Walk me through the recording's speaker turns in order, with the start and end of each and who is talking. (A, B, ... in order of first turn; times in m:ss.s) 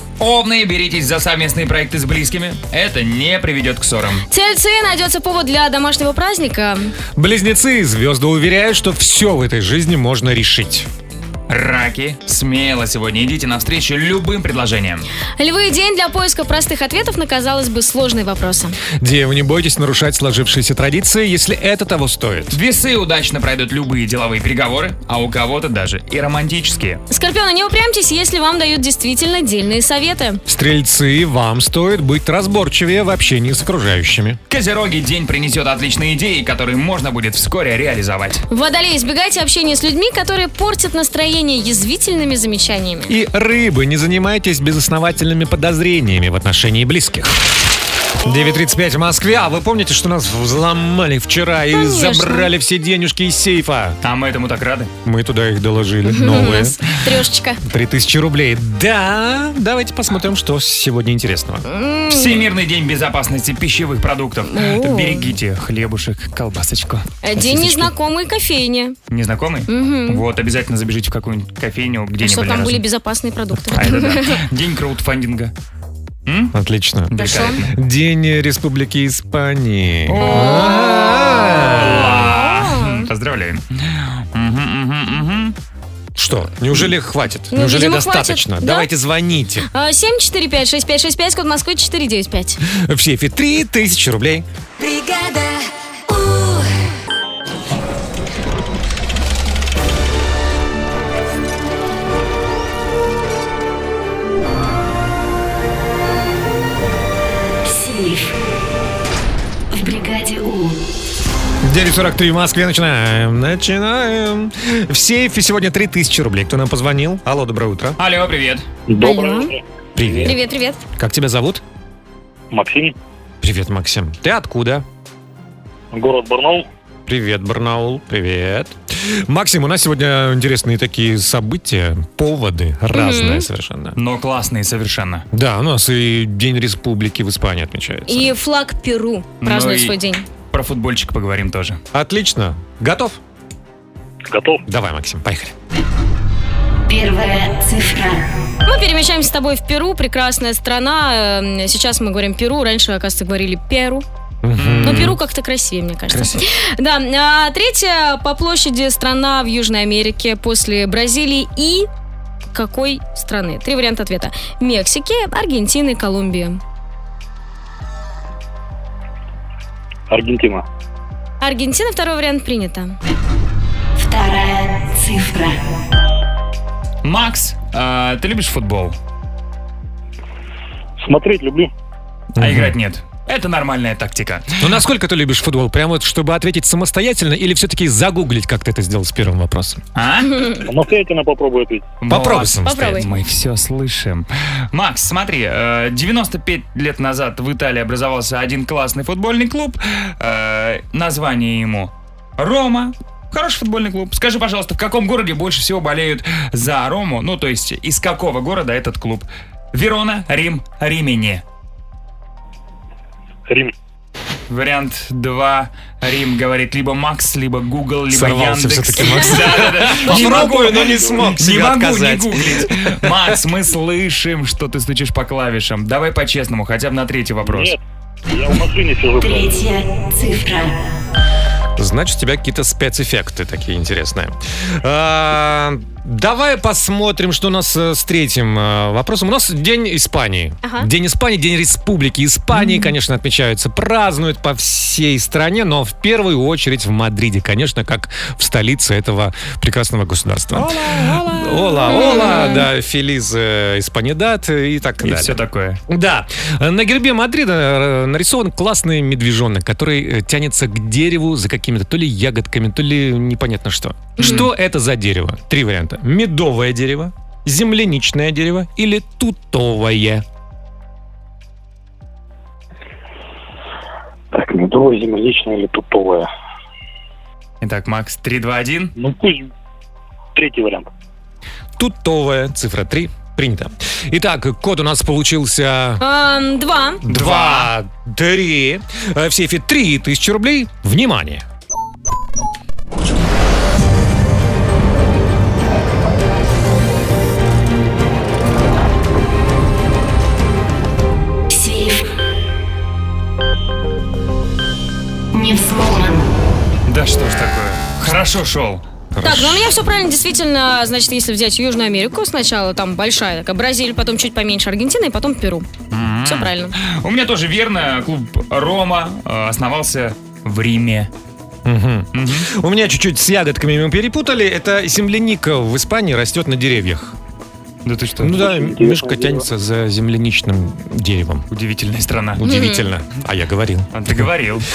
0:00.2-0:04.3 A
0:04.3-0:06.9 B
0:07.2-0:10.9 C
0:11.5-0:15.1 A
0:15.4-0:18.8 B
0:19.0-0:22.6 C
0:22.5-0:27.0 A
0:27.1-0:30.4 B
0:30.5-0:34.4 C
0:34.5-0:38.4 A
0:38.5-0:43.2 B
0:43.1-0:47.4 C
0:48.2-0:54.0 C
0:51.7-0:52.5 B
0:54.0-0:54.9 A
0:55.0-0:56.8 C
0:56.1-0:57.6 B
0:57.6-1:01.7 C
1:01.6-1:02.5 B
1:02.1-1:07.9 A
1:04.5-1:05.3 B
1:07.2-1:09.0 B
1:09.1-1:12.8 A
1:09.7-1:10.2 B
1:12.2-1:14.3 B
1:13.7-1:15.5 A
1:16.3-1:16.5 A
1:16.5-1:22.3 C
1:17.1-1:17.7 A
1:17.2-1:17.6 B
1:20.1-1:20.8 A
1:20.2-1:23.1 B
1:21.7-1:25.6 A
1:26.2-1:29.7 C
1:27.5-1:28.9 B
1:29.7-1:32.6 B
1:32.7-1:34.4 C
1:34.8-1:36.7 D
1:47.6-1:48.4 D
1:49.7-1:50.8 D
1:51.6-1:58.0 C
1:58.0-1:58.7 A
1:58.9-2:00.4 E
1:59.0-1:59.5 B
2:00.0-2:00.4 C
2:00.2-2:00.8 B
2:01.0-2:01.6 C
2:02.5-2:02.9 E
2:03.4-2:04.8 C
2:05.9-2:06.6 E
2:07.1-2:14.0 C
2:12.9-2:13.5 B
2:14.0-2:15.2 A
2:15.3-2:18.4 C
2:18.1-2:20.2 B
2:19.4-2:20.0 A
2:20.5-2:21.8 A
2:21.9-2:23.2 C
2:24.3-2:24.6 E
2:24.7-2:25.5 C
2:26.9-2:28.3 D
2:28.7-2:34.0 B
2:34.4-2:35.2 C
2:34.6-2:35.2 A
2:34.8-2:41.9 B
2:36.1-2:36.4 A
2:42.5-2:46.6 B
2:50.1-2:50.6 E
2:51.4-2:53.0 B
2:54.0-2:55.8 D
2:57.0-2:59.0 A
3:01.0-3:01.7 E
3:02.4-3:02.8 C
3:02.4-3:04.8 A
3:04.6-3:09.8 C
3:10.0-3:10.6 A
3:10.3-3:10.6 B
3:10.7-3:12.0 E
3:12.0-3:31.4 A
3:12.1-3:13.1 C
3:12.6-3:13.1 B
3:33.5-3:33.7 E
3:34.5-3:47.8 A
3:38.1-3:42.7 C
3:47.4-3:47.8 E
3:48.3-3:49.7 E
3:49.2-3:51.0 D
3:51.8-4:15.4 C
4:10.6-4:11.4 A
4:11.9-4:12.6 B
4:12.0-4:12.5 A
4:15.0-4:15.8 A
4:15.9-4:30.2 C
4:24.2-4:24.5 B
4:24.2-4:24.5 A
4:34.3-4:36.3 E
4:37.6-4:38.9 A
4:39.0-4:39.5 E
4:40.4-4:40.9 E
4:41.8-4:46.0 C
4:46.0-4:47.0 B
4:47.0-4:51.4 C
4:47.1-4:47.7 A
5:01.5-5:02.0 D
5:05.3-5:06.3 D
5:06.9-5:08.8 A
5:09.1-5:09.7 C
5:09.2-5:15.7 B
5:15.9-5:21.1 A
5:16.2-5:16.7 B
5:21.6-5:27.2 C
5:22.1-5:22.5 A
5:27.8-5:28.4 A
5:28.2-5:31.5 C
5:28.3-5:29.5 E
5:31.5-5:32.4 A
5:32.4-5:34.3 C
5:32.4-5:32.9 B
5:33.9-5:34.7 A